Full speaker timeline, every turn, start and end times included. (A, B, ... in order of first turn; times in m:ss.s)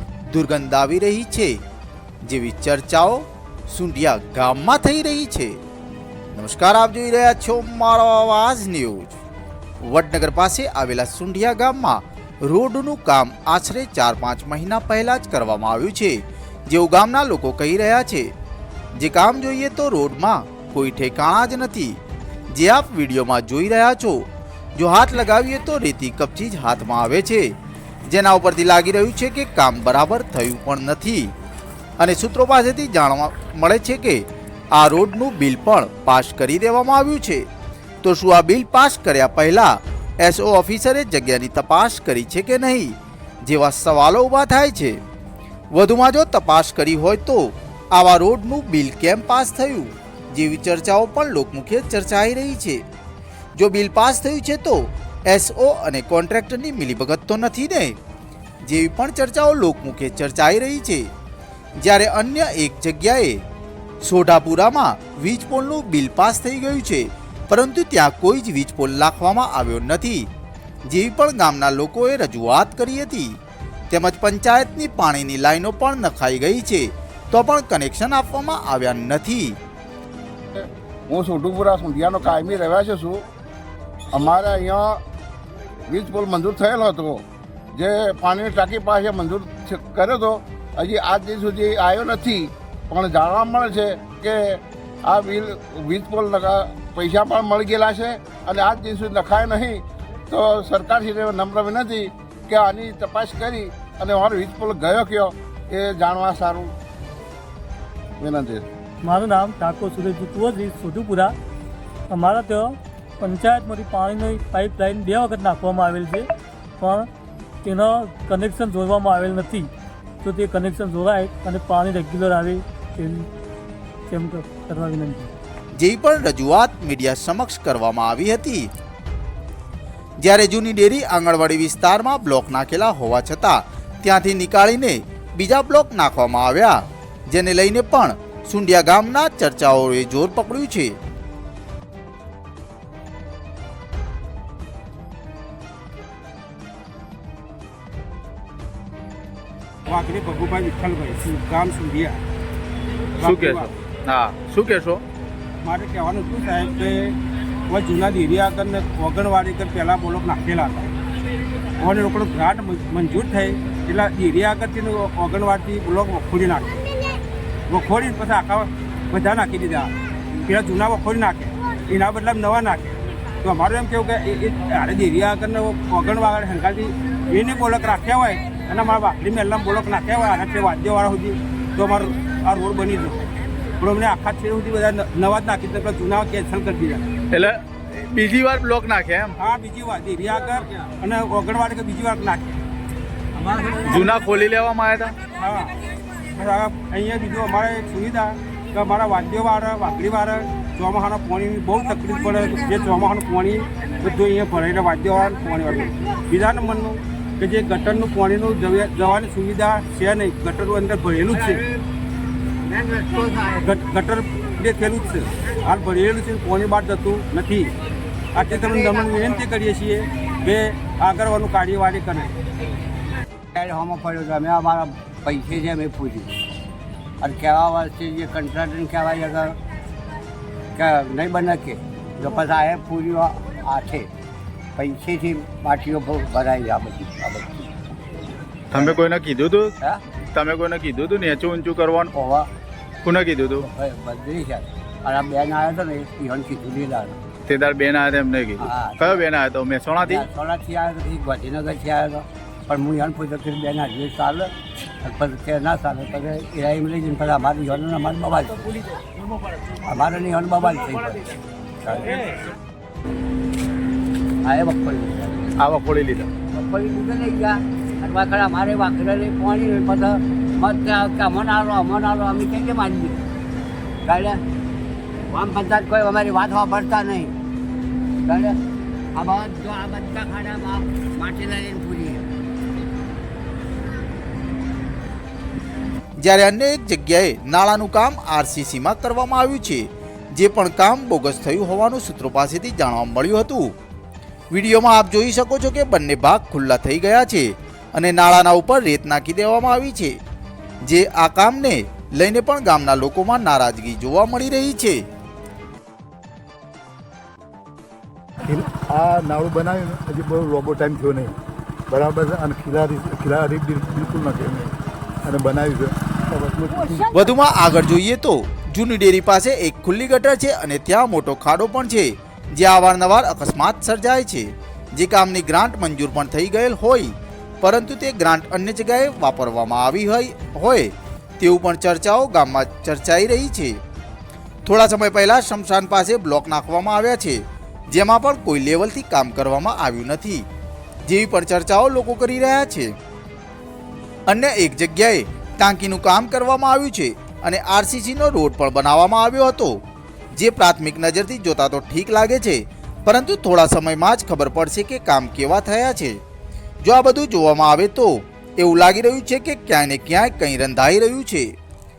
0:00.3-0:01.6 A
0:02.2-0:05.5 A
0:06.3-0:09.2 A
0:09.8-0:18.3 A
0:19.0-0:21.9 A
0:22.5-0:24.2 A
0:24.8-0:27.5 A
0:28.1-0:31.3 A
0:32.0-0:37.4 A
0:38.0-0:42.9 A
0:43.4-0:45.0 A
0:45.7-0:52.8 A
0:53.6-0:58.0 A
0:58.6-1:01.0 A
1:01.8-1:03.4 A
1:04.0-1:10.3 A
1:10.9-1:13.3 A
1:13.9-1:19.6 A
1:20.5-1:23.2 B
1:24.1-1:25.0 B
1:25.9-1:46.7 B
1:48.2-1:48.6 B
1:49.0-1:51.3 C
1:52.1-1:56.3 C
1:56.8-1:57.1 C
1:57.6-1:59.7 C
2:00.2-2:03.3 C
2:04.1-2:05.3 C
2:05.8-2:08.7 A
2:10.2-2:20.9 A
2:29.9-2:32.2 D
2:33.2-2:33.7 D
2:33.2-2:35.0 E
2:35.6-2:37.1 D
2:37.7-2:40.9 D
2:41.8-2:46.7 D
2:47.7-2:49.9 D
2:50.4-3:03.2 D
3:03.8-3:07.1 D
3:07.3-3:09.3 E
3:09.4-3:12.6 D
3:13.9-3:15.1 E
3:15.4-3:15.7 D
3:16.3-3:31.6 D
3:32.7-3:33.5 F
3:33.6-3:37.7 D
3:38.3-3:42.3 D
3:43.5-3:46.3 F
3:47.2-3:49.6 F
3:50.7-3:54.1 F
3:54.8-3:57.7 F
3:58.7-3:59.8 E
4:00.3-4:02.1 E
4:02.1-4:02.5 F
4:03.0-4:03.7 E
4:03.6-4:07.2 F
4:07.5-4:10.2 E
4:08.6-4:09.3 F
4:10.0-4:18.7 F
4:19.8-4:21.2 F
4:21.8-4:22.3 F
4:24.4-4:25.5 F
4:25.6-4:26.3 E
4:26.4-4:33.2 F
4:34.0-4:34.4 F
4:35.3-4:37.3 F
4:38.2-4:38.6 F
4:39.1-4:42.3 F
4:46.2-4:53.7 A
4:54.5-5:00.1 A
5:00.9-5:05.0 A
5:08.4-5:11.4 G
5:11.9-5:14.7 G
5:15.2-5:16.9 G
5:17.1-5:33.8 A
5:34.6-5:37.4 A
5:37.9-5:40.4 A
5:41.1-5:42.9 A
5:44.3-5:49.8 A
5:50.4-5:56.2 A
5:56.8-6:01.5 A